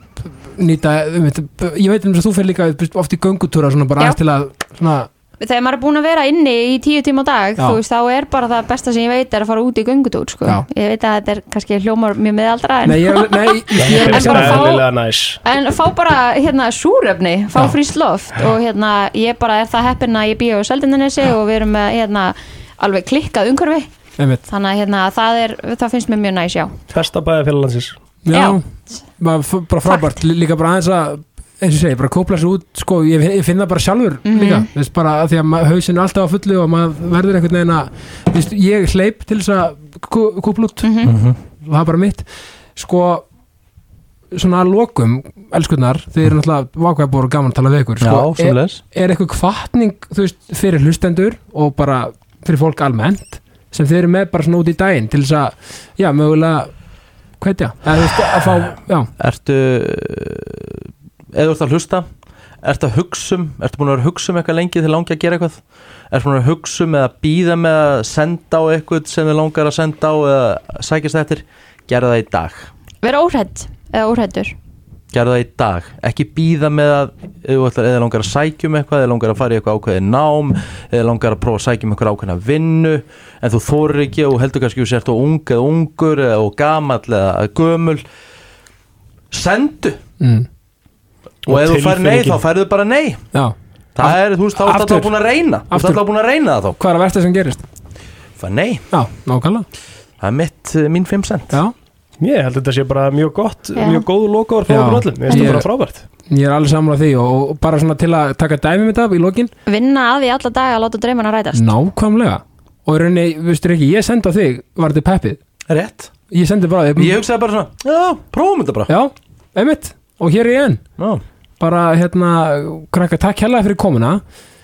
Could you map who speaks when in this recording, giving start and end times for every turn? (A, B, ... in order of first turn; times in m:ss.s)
0:00.2-0:05.1 A
0:05.4-0:14.9 B
0:12.8-0:14.7 A
0:13.8-0:15.4 C
0:15.4-0:23.9 B
0:24.2-0:24.4 A
0:24.5-0:26.7 B
0:26.9-0:28.0 C
0:28.2-0:28.6 A
0:28.3-0:28.6 B
0:29.2-0:40.9 A
0:34.2-0:34.7 B
0:40.8-0:41.1 B
0:41.0-0:41.4 D
0:41.6-0:43.2 A
0:44.3-0:56.7 A
0:48.0-0:48.8 D
0:57.4-0:59.1 A
0:59.2-1:02.1 D
1:02.6-1:12.7 D
1:13.0-1:14.5 B
1:15.1-1:28.0 D
1:29.3-1:30.0 D
1:30.2-1:30.5 A
1:31.4-1:32.4 C
1:31.5-1:33.2 D
1:33.3-1:35.1 A
1:33.9-1:36.8 D
1:35.7-1:36.0 A
1:36.8-1:37.6 A
1:38.4-1:38.8 D
1:38.9-1:39.6 A
1:40.2-1:41.6 D
1:42.2-1:46.0 C
1:43.8-1:44.0 B
1:44.7-1:45.7 A
1:45.3-1:45.6 B
1:46.3-1:49.5 A
1:49.6-1:51.7 B
1:51.5-1:55.4 A
1:55.7-1:56.1 D
1:56.3-1:57.2 A
1:57.0-1:58.9 D
1:58.9-2:00.8 A
2:01.6-2:04.2 A